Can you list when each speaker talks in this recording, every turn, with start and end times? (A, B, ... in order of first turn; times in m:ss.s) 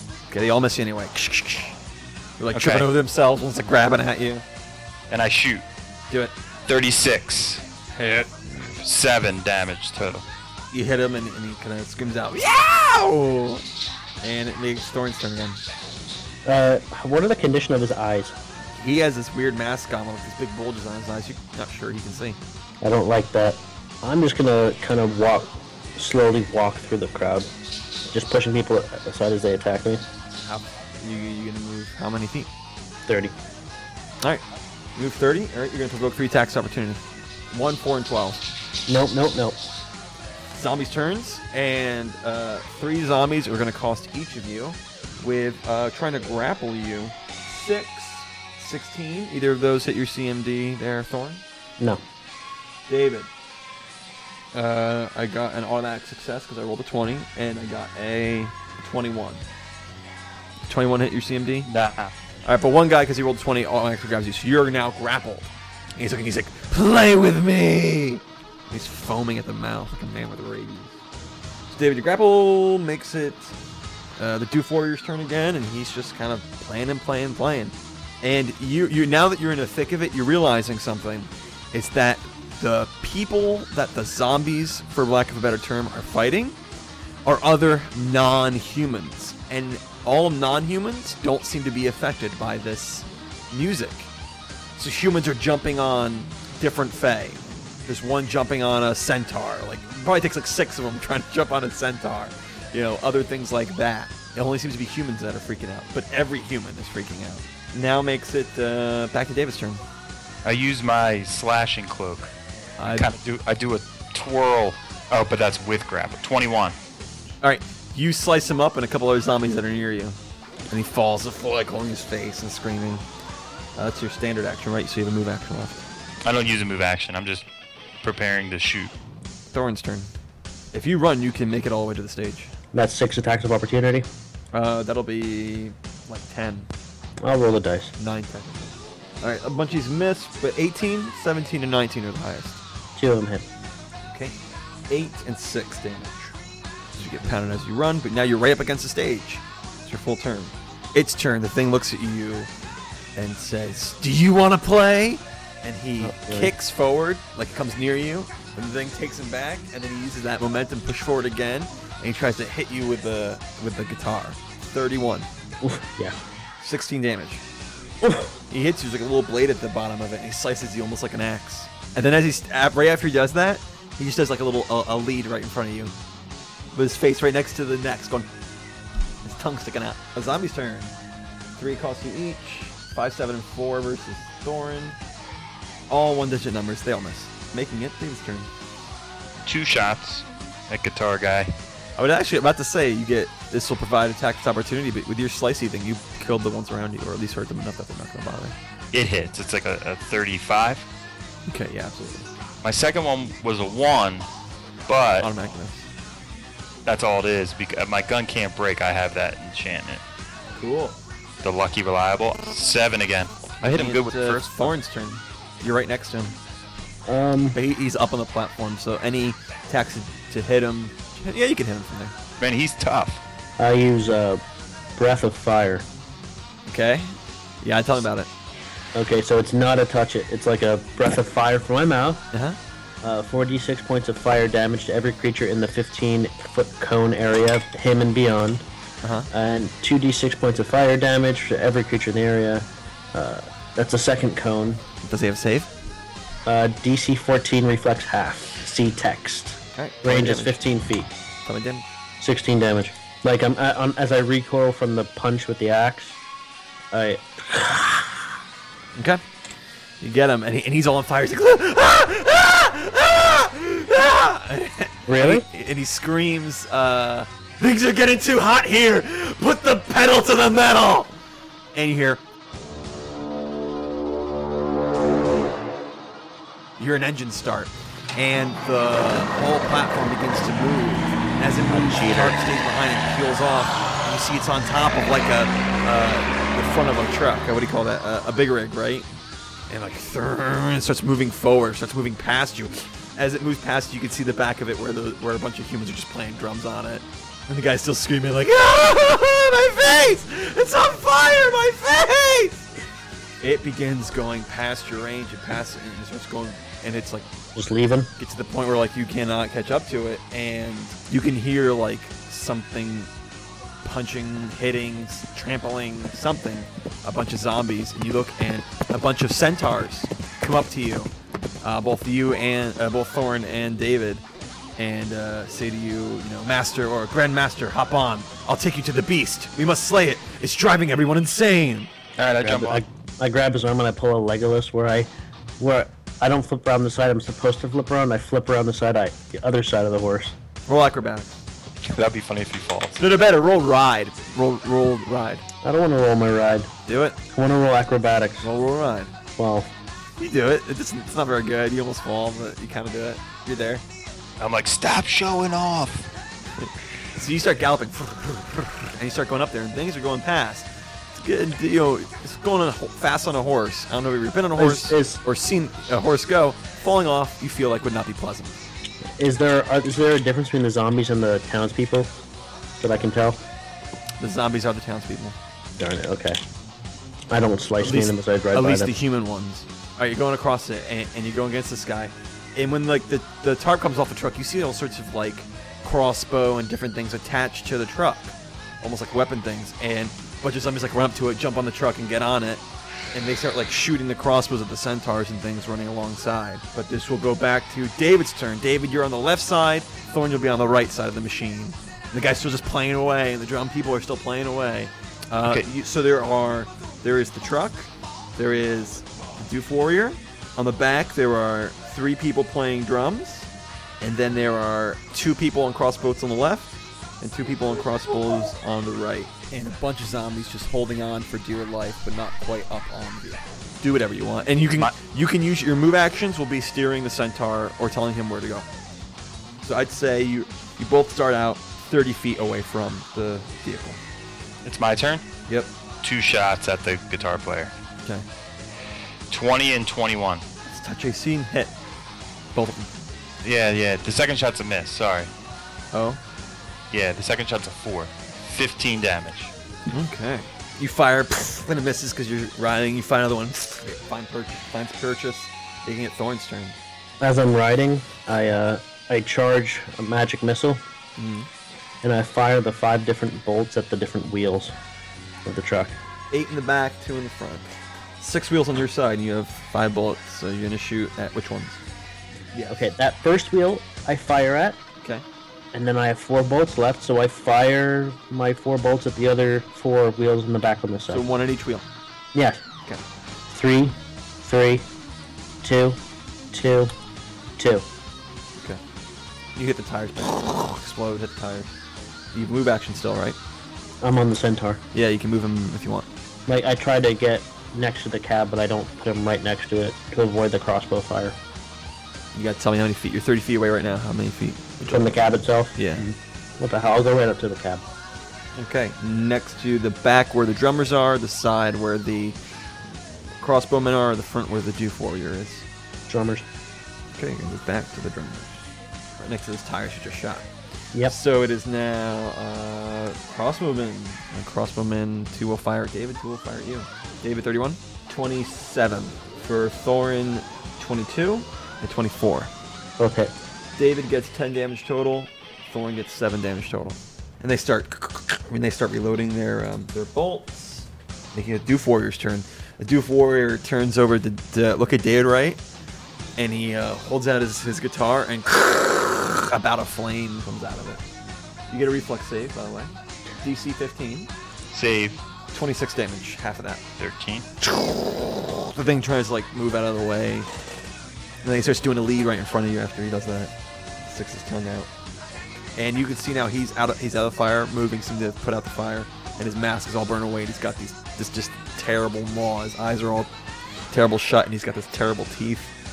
0:00.3-0:01.8 A
0:02.4-0:04.4 A
0:02.5-0:02.9 B
0:05.1-0:05.6 B
0:06.7-0:07.6 B
0:07.9-0:08.4 A
0:08.6-0:10.2 B
0:10.7-0:13.6 A
0:14.2-0:15.6 A
0:16.4-0:18.4 C
0:18.8-0:22.4 A
0:22.8-0:27.5 C
0:28.1-0:30.0 C
0:30.4-0:32.5 A
0:33.1-0:33.3 C
0:34.9-0:38.4 A
0:38.9-0:39.6 C
0:40.5-0:51.4 A
0:52.9-0:53.3 A
0:54.5-0:59.4 A
1:00.7-1:01.7 A
1:01.6-1:02.1 B
1:02.4-1:11.0 A
1:11.7-1:13.5 A
1:14.2-1:26.6 A
1:27.2-1:34.1 A
1:34.8-1:49.8 A
1:50.4-1:52.3 B
1:52.8-1:53.1 A
1:52.9-1:56.8 B
1:57.4-2:00.2 A
2:00.7-2:03.0 A
2:03.7-2:05.7 A
2:06.2-2:07.4 B
2:08.0-2:08.9 B
2:09.5-2:10.1 A
2:10.7-2:12.5 A
2:12.7-2:14.1 C
2:14.5-2:16.7 A
2:17.2-2:17.9 C
2:18.0-2:22.6 A
2:23.0-2:23.4 C
2:24.1-2:24.4 A
2:24.9-2:26.3 A
2:26.9-2:32.5 A
2:33.1-2:45.3 A
2:36.0-2:36.5 C
2:45.6-2:46.2 C
2:46.6-2:47.4 A
2:48.0-2:48.3 C
2:48.5-2:55.9 A
2:56.7-2:58.3 A
2:59.2-3:00.9 A
3:01.6-3:05.0 A
3:05.9-3:08.5 A
3:09.4-3:11.5 B
3:12.0-3:18.6 A
3:18.9-3:20.8 B
3:21.5-3:22.3 A
3:22.6-3:24.3 B
3:24.9-3:25.3 B
3:25.2-3:25.9 A
3:26.8-3:30.0 B
3:30.5-3:31.0 A
3:31.4-3:34.7 B
3:33.6-3:36.4 A
3:37.0-3:37.6 C
3:37.5-3:42.1 A
3:42.4-3:43.2 B
3:43.6-3:44.4 C
3:45.0-3:45.8 C
3:46.7-3:48.3 A
3:48.9-3:52.2 C
3:52.3-3:52.6 A
3:53.0-3:58.6 C
3:59.0-3:59.3 A
3:59.3-4:04.8 C
4:05.0-4:05.7 A
4:06.4-4:11.1 C
4:09.8-4:10.6 A
4:11.4-4:11.8 A
4:12.2-4:16.2 C
4:16.9-4:18.2 C
4:18.9-4:19.2 A
4:20.0-4:31.2 A
4:25.1-4:25.4 C
4:31.7-4:32.2 A
4:36.8-4:49.1 A
4:41.7-4:42.4 B
4:49.7-5:02.7 A
5:03.4-5:07.3 A
5:07.5-5:08.1 C
5:08.2-5:13.1 A
5:13.8-5:21.1 A
5:21.6-5:24.2 A
5:24.8-5:31.9 A
5:32.2-5:32.8 B
5:32.4-5:35.1 C
5:35.6-5:40.3 C
5:40.7-5:41.3 A
5:41.8-5:43.0 B
5:43.0-5:45.4 A
5:45.6-5:46.7 C
5:46.8-5:47.2 A
5:47.3-5:48.5 C
5:48.4-5:49.1 A
5:49.4-5:49.7 C
5:50.2-5:53.8 A
5:54.4-5:56.1 B
5:56.6-6:08.7 A
6:04.6-6:05.2 C
6:09.2-6:12.1 C
6:12.8-6:13.4 C
6:14.2-6:15.4 A
6:15.8-6:16.4 C
6:17.3-6:18.9 C
6:17.8-6:53.5 A
6:54.0-7:08.7 A
7:09.6-7:14.0 A
7:14.6-7:15.2 B
7:16.0-7:17.7 B
7:19.3-7:20.4 B
7:20.6-7:21.7 A
7:22.5-7:22.9 A
7:23.4-7:25.3 B
7:25.9-7:26.2 A
7:26.9-7:29.5 B
7:29.9-7:36.8 A
7:37.2-7:40.8 C
7:41.2-7:41.5 A
7:42.0-7:44.7 C
7:45.4-7:46.0 C
7:46.3-7:51.8 A
7:52.5-7:52.9 A
7:52.7-7:54.8 C
7:55.7-8:01.2 C
8:01.1-8:01.9 A
8:02.3-8:02.6 C
8:03.5-8:04.8 C
8:05.6-8:06.0 C
8:06.5-8:06.9 C
8:07.6-8:07.8 C
8:09.5-8:11.7 A
8:12.3-8:13.4 A
8:14.0-8:14.8 C
8:14.9-8:16.1 A
8:16.5-8:21.4 C
8:22.3-8:25.2 A
8:24.8-8:27.8 C
8:25.7-8:26.0 A
8:28.5-8:32.4 A
8:33.4-8:35.6 A
8:36.1-8:36.4 C
8:37.1-8:38.6 A
8:39.2-8:40.5 A
8:41.0-8:52.5 A
8:53.0-8:53.3 C
8:53.7-9:05.6 A
9:06.4-9:11.0 A
9:11.7-9:14.3 A
9:14.7-9:15.2 B
9:15.5-9:16.8 A
9:17.0-9:17.4 B
9:17.7-9:20.5 A
9:21.4-9:23.5 A
9:24.0-9:24.9 A
9:25.8-9:33.3 A
9:33.9-9:35.7 A